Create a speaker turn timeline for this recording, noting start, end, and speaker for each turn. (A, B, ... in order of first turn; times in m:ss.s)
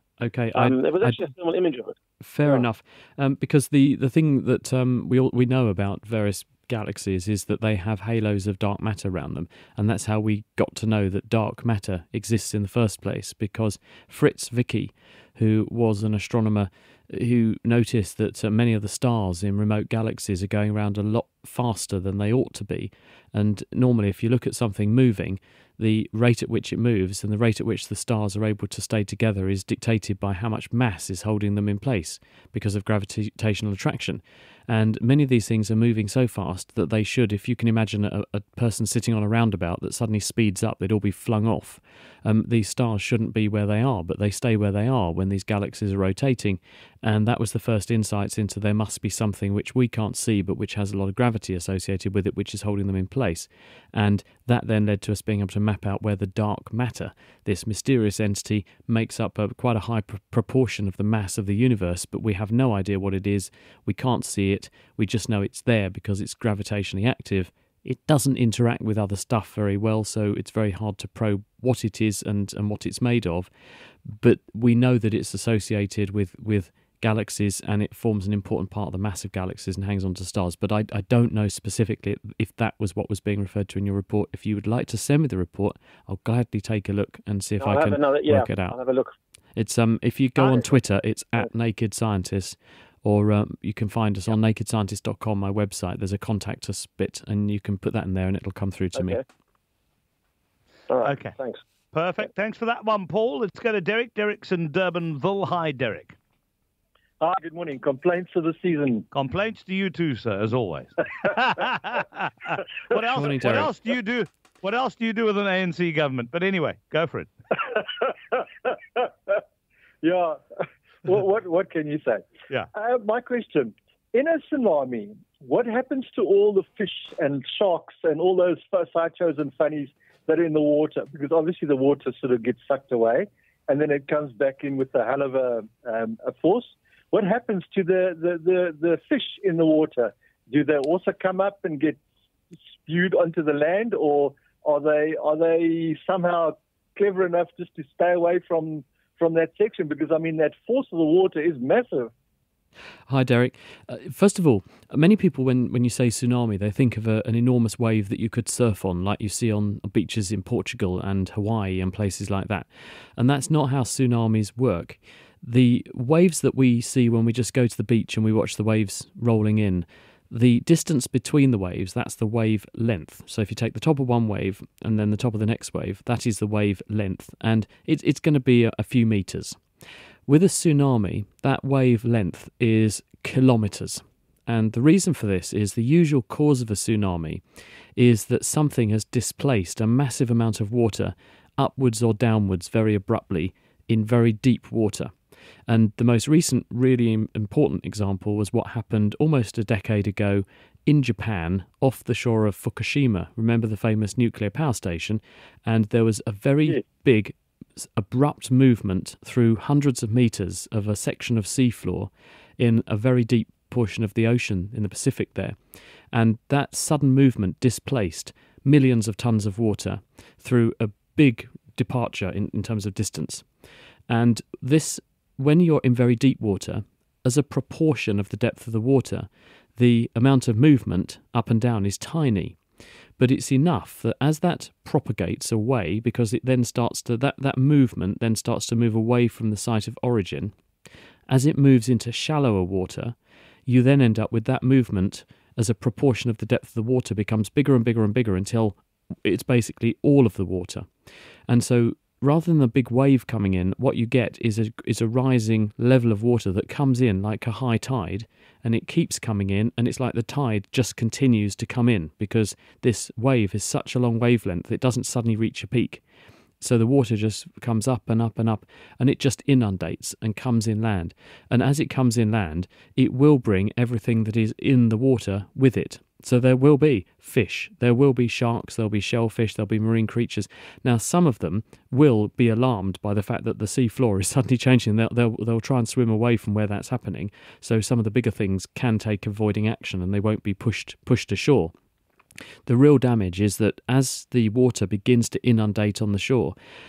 0:00.2-0:01.2 A
0:00.5-0:02.6 B
0:02.2-1:13.5 A
1:14.1-1:28.8 A
1:27.6-1:29.1 B
1:29.6-1:39.2 A
1:30.4-1:30.7 B
1:39.0-1:39.2 B
1:40.9-1:41.6 B
1:41.0-1:41.4 C
1:41.9-1:46.2 C
1:47.2-1:49.1 D
1:49.1-1:57.3 C
1:53.1-1:53.7 A
1:57.6-1:59.4 D
2:00.0-2:00.4 D
2:01.0-2:22.0 D
2:22.8-2:32.1 D
2:33.1-2:59.6 A
3:00.3-3:07.4 A
3:08.0-3:15.1 A
3:15.7-3:35.6 A
3:36.1-3:43.5 A
3:44.1-3:52.6 A
3:53.2-4:00.6 A
4:01.3-4:10.9 A
4:11.5-4:26.0 A
4:26.6-4:51.7 A
4:52.7-4:56.6 A